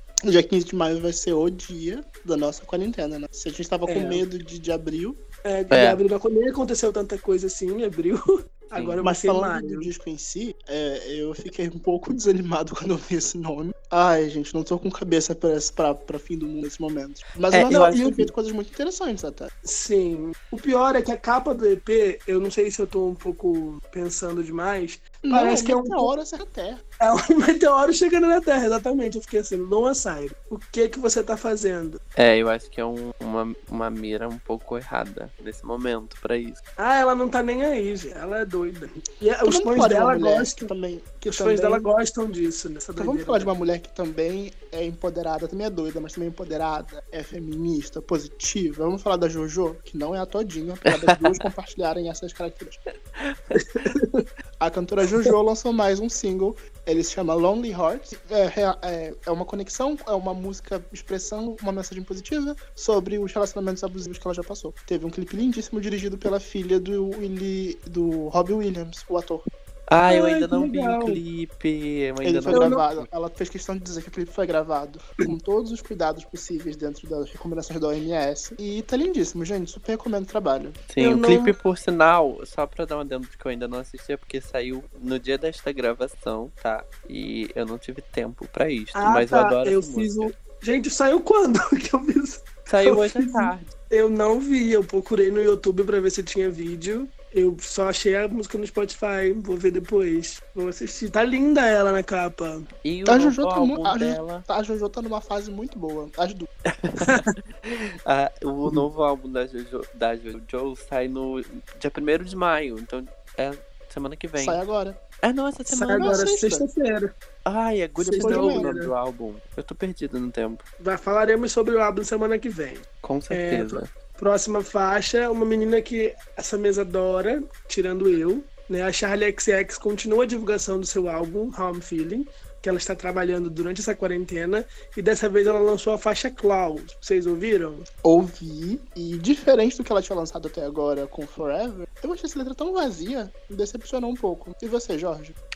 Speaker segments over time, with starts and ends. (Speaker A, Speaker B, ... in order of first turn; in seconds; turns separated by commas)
Speaker A: 0.3-5.2, Speaker B: 3.9-4.2, Speaker B: 5.5-9.9, Speaker C: 5.7-6.0, Speaker A: 9.0-19.5, Speaker C: 17.5-17.9, Speaker B: 17.7-18.2, Speaker B: 19.6-26.1, Speaker A: 25.2-26.8, Speaker B: 27.0-32.0, Speaker C: 32.2-36.6, Speaker B: 36.8-40.7, Speaker A: 39.5-41.9, Speaker B: 41.3-43.5, Speaker A: 43.0-52.8, Speaker C: 53.2-53.6, Speaker B: 53.5-54.2, Speaker A: 54.6-69.4, Speaker C: 69.9-73.1, Speaker B: 70.1-71.2, Speaker A: 72.2-80.8, Speaker B: 72.5-72.8, Speaker C: 80.9-90.3, Speaker B: 81.0-81.5, Speaker B: 89.0-102.7, Speaker C: 92.7-93.7, Speaker C: 102.8-104.5, Speaker A: 103.1-106.5, Speaker C: 106.7-114.6, Speaker A: 114.4-115.0, Speaker C: 115.2-116.2, Speaker B: 115.7-117.1, Speaker A: 115.9-116.7, Speaker C: 117.5-120.6, Speaker A: 118.0-118.7, Speaker B: 118.1-118.9, Speaker B: 120.8-137.8, Speaker C: 123.0-123.9, Speaker A: 138.0-145.4